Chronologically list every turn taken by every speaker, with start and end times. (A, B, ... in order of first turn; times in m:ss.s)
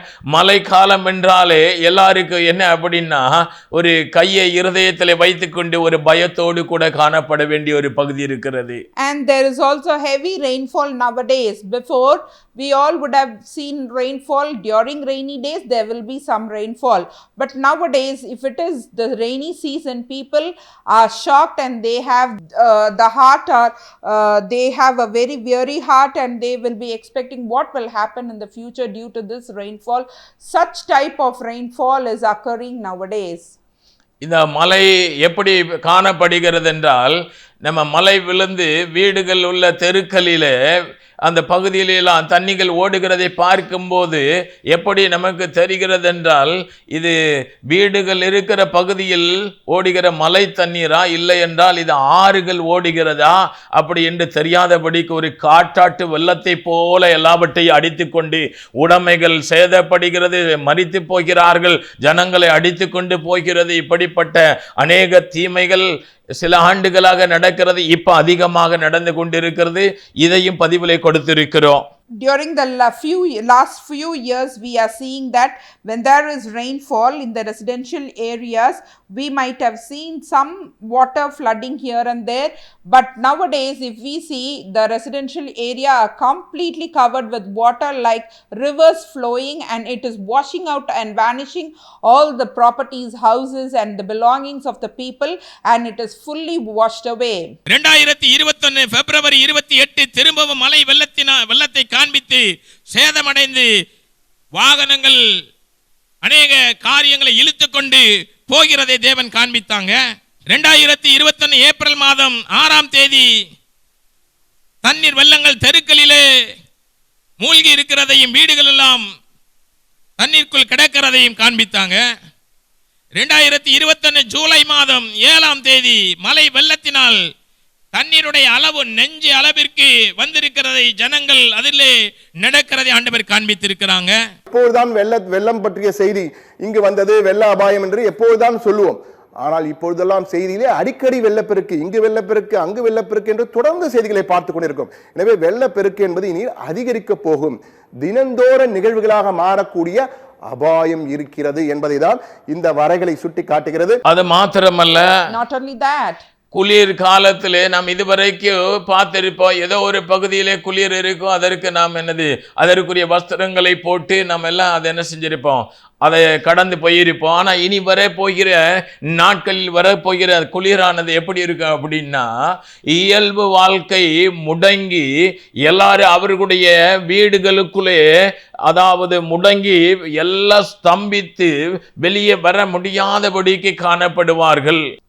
0:00.3-0:08.8 A
0:09.0-0:33.5 B
0:34.2-0:40.5 A
0:41.2-0:47.1 A
0:47.7-1:05.9 A
1:06.4-1:11.8 A
1:12.2-1:37.5 B
1:37.7-1:43.7 C
1:44.5-1:45.2 C
1:46.2-1:49.9 C
1:50.5-1:53.2 C
1:54.8-1:56.2 C
1:57.4-1:59.0 C
2:00.2-2:02.0 C
2:03.2-2:07.2 C
2:07.9-2:14.1 C
2:14.5-2:34.0 D
2:34.1-2:35.0 A
2:35.3-2:36.2 B
2:36.5-2:48.6 A
2:49.1-2:52.3 A
2:52.9-2:55.1 A
2:55.6-2:58.0 A
2:58.7-3:04.8 A